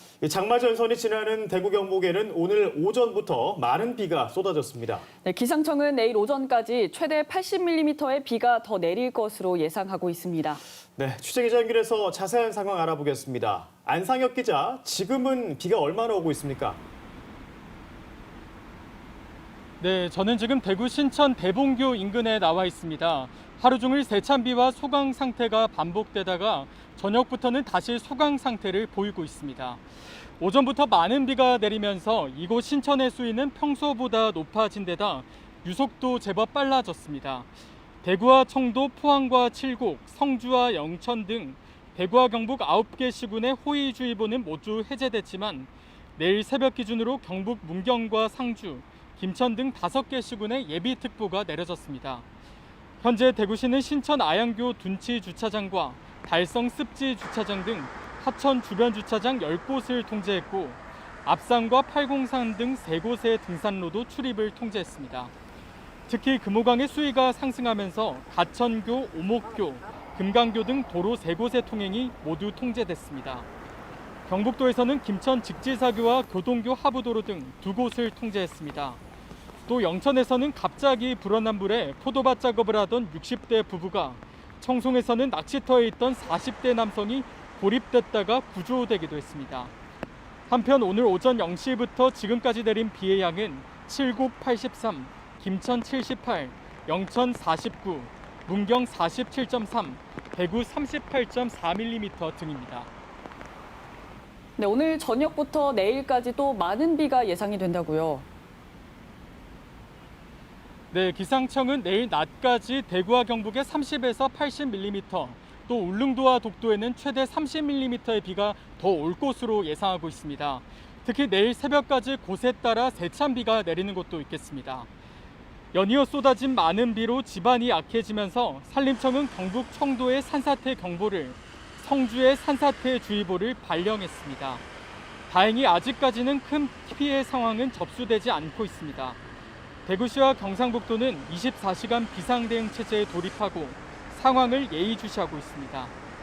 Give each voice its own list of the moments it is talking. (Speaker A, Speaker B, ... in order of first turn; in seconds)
Speaker A: 0.2-5.0, 11.0-16.8
Speaker B: 5.2-10.6, 104.6-108.3
Speaker C: 19.8-29.8, 30.4-37.5, 38.0-52.2, 53.0-65.3, 66.1-73.5, 74.3-79.0, 79.7-89.7, 90.5-102.9, 110.9-124.9, 125.7-134.6, 135.3-139.2, 139.9-145.9